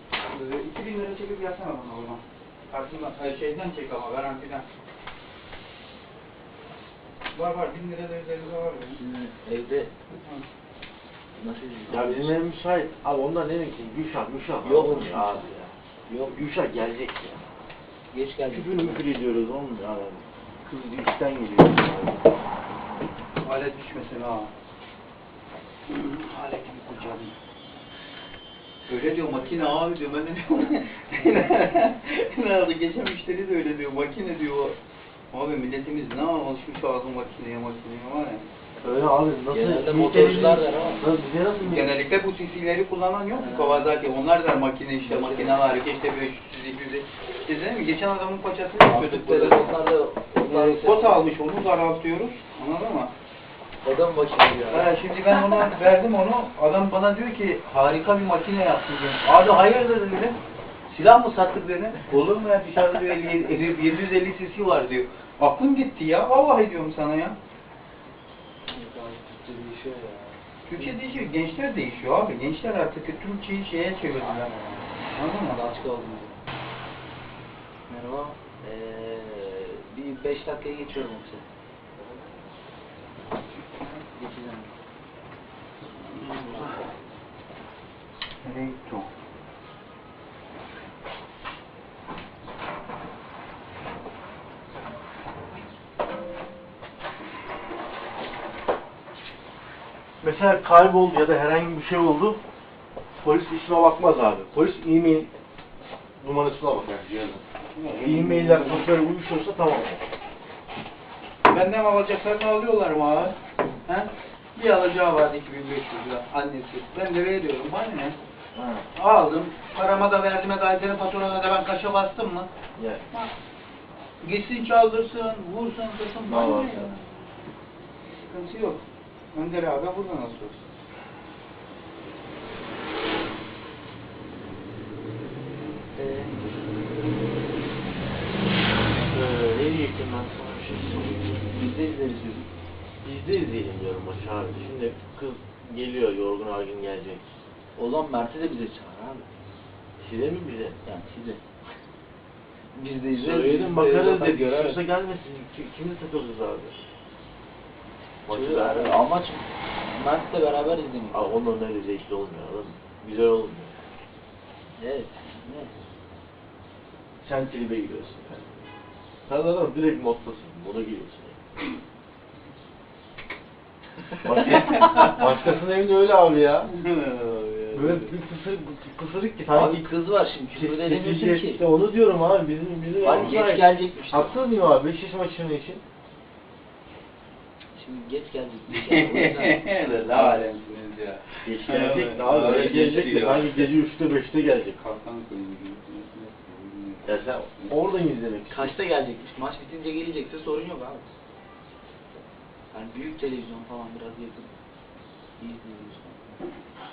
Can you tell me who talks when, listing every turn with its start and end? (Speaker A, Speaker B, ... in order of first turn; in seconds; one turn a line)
Speaker A: 0.2-4.7
Speaker A: 7.3-9.0
Speaker B: 9.0-9.9
Speaker B: 11.3-12.3
Speaker C: 11.9-15.8
Speaker B: 14.6-15.5
Speaker B: 16.1-16.4
Speaker C: 16.3-17.5
Speaker B: 18.1-19.1
Speaker C: 18.5-22.5
Speaker A: 23.4-24.5
Speaker A: 25.9-27.3
Speaker A: 28.9-34.8
Speaker A: 35.3-38.4
Speaker C: 38.8-42.0
Speaker B: 39.5-41.0
Speaker A: 41.6-49.8
Speaker B: 43.3-43.9
Speaker B: 45.0-45.6
Speaker B: 48.8-51.3
Speaker A: 50.4-53.1
Speaker B: 53.8-55.7
Speaker A: 54.7-60.4
Speaker A: 60.9-67.4
Speaker B: 68.7-71.0
Speaker A: 70.7-75.6
Speaker B: 74.2-76.4
Speaker B: 77.9-81.5
Speaker B: 83.8-84.8
Speaker A: 86.0-86.8
Speaker B: 86.1-86.7
Speaker A: 88.4-89.1
Speaker C: 100.2-102.4
Speaker C: 103.2-105.3
Speaker C: 106.2-110.0
Speaker A: 107.7-108.9
Speaker A: 111.5-118.2
Speaker C: 118.5-118.9
Speaker A: 118.9-122.5
Speaker C: 122.8-123.0
Speaker A: 124.2-127.0
Speaker C: 126.2-126.9
Speaker A: 128.1-128.8
Speaker A: 129.3-130.6
Speaker B: 136.0-136.3
Speaker C: 138.9-141.4
Speaker B: 141.4-142.5
Speaker C: 143.0-147.2
Speaker B: 147.8-149.3
Speaker C: 150.0-150.8
Speaker B: 150.8-151.4
Speaker B: 152.7-154.8
Speaker C: 153.1-156.8
Speaker C: 158.2-159.1
Speaker B: 158.3-161.3
Speaker C: 161.1-163.8
Speaker B: 164.8-165.7
Speaker C: 167.2-168.5
Speaker C: 169.3-171.4
Speaker C: 174.1-176.7
Speaker A: 174.7-175.2
Speaker B: 174.8-175.1
Speaker A: 176.7-178.1
Speaker C: 177.7-179.9
Speaker B: 179.5-181.6
Speaker C: 180.5-185.8
Speaker B: 183.0-184.4
Speaker A: 183.0-183.4
Speaker B: 187.7-190.5
Speaker A: 188.7-193.7
Speaker C: 191.4-194.8
Speaker A: 194.8-197.8
Speaker C: 197.0-198.7
Speaker B: 198.5-201.1
Speaker B: 202.7-204.5
Speaker B: 205.4-206.4